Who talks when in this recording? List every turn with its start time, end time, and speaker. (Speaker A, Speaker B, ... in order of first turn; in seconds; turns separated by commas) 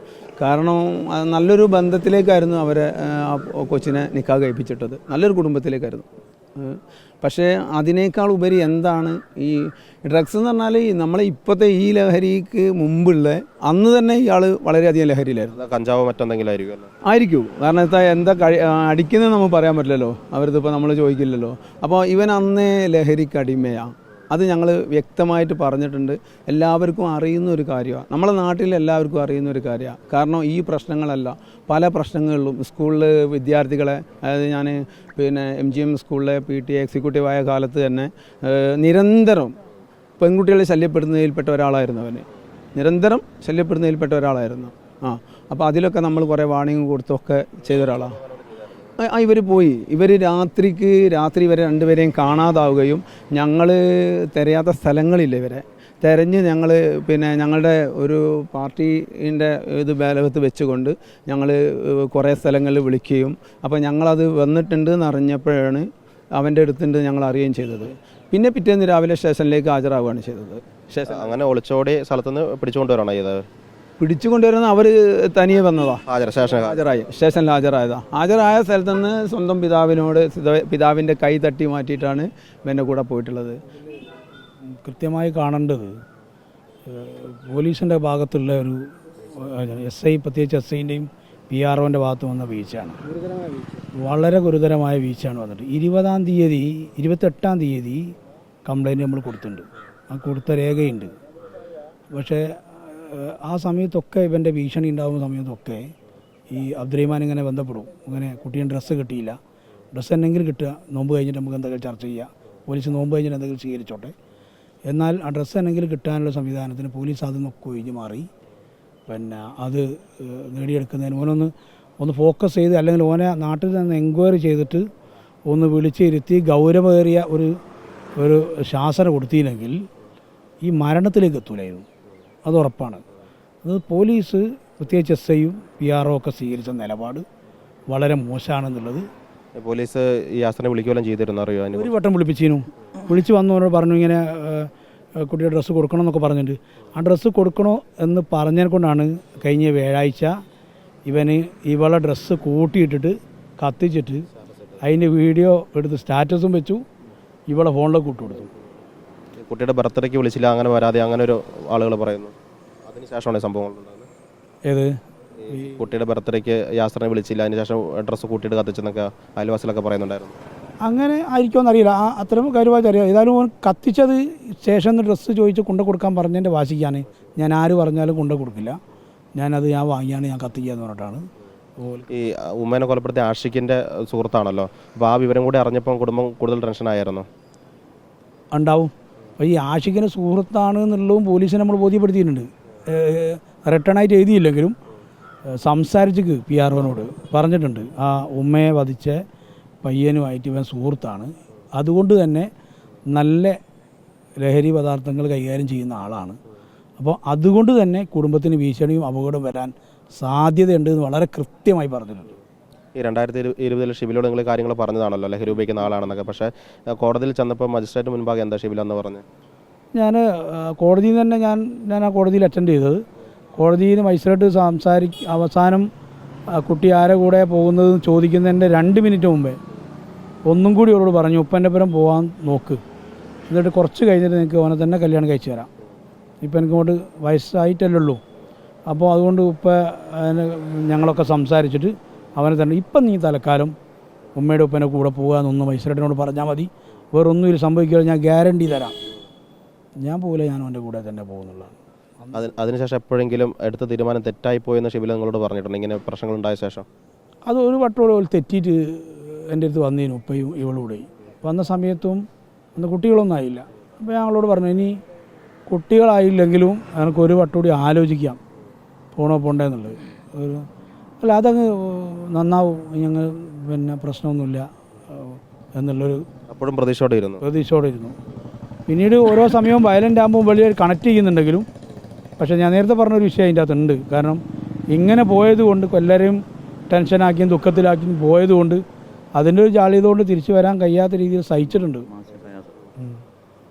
Speaker A: 0.4-15.6, Speaker B: 15.6-16.9, Speaker A: 17.1-39.6, Speaker A: 40.2-48.2, Speaker A: 49.0-71.3, Speaker B: 71.1-73.4, Speaker A: 74.0-83.6, Speaker B: 76.2-76.8, Speaker C: 84.7-86.0, Speaker C: 86.9-93.0, Speaker A: 93.1-93.8, Speaker C: 93.9-98.1, Speaker C: 98.6-101.1, Speaker C: 102.1-105.9, Speaker C: 106.5-109.4, Speaker C: 109.9-114.1, Speaker C: 114.9-118.3, Speaker C: 119.1-124.8, Speaker C: 125.5-127.5, Speaker C: 128.2-129.8, Speaker C: 130.6-131.8, Speaker C: 132.4-133.0, Speaker C: 133.6-137.2, Speaker C: 137.9-139.1, Speaker B: 139.6-141.9, Speaker C: 141.7-150.3, Speaker C: 151.1-154.3, Speaker C: 154.8-156.8, Speaker C: 157.5-158.5, Speaker B: 159.4-162.3, Speaker B: 162.9-164.1, Speaker C: 164.7-165.0, Speaker C: 165.5-165.8, Speaker B: 165.8-170.3, Speaker C: 170.8-178.8, Speaker C: 179.3-181.2, Speaker C: 181.8-182.1, Speaker B: 182.1-187.2, Speaker C: 188.5-194.8, Speaker C: 195.5-199.2, Speaker C: 199.8-202.5, Speaker C: 203.1-203.6, Speaker C: 204.4-206.4, Speaker C: 207.0-212.3, Speaker B: 213.0-219.2, Speaker C: 219.9-223.0, Speaker C: 223.6-225.9, Speaker C: 226.5-229.6, Speaker C: 230.4-232.8, Speaker C: 233.5-235.7, Speaker C: 236.4-238.2, Speaker C: 238.9-243.7, Speaker C: 244.3-248.9, Speaker C: 250.0-252.3, Speaker B: 252.4-256.8, Speaker C: 257.5-262.2, Speaker C: 262.8-265.0, Speaker C: 265.7-268.4, Speaker C: 269.1-270.7, Speaker C: 271.2-276.2, Speaker B: 276.5-277.4, Speaker C: 277.4-278.1, Speaker C: 278.9-281.7, Speaker C: 282.4-288.8, Speaker C: 289.4-292.1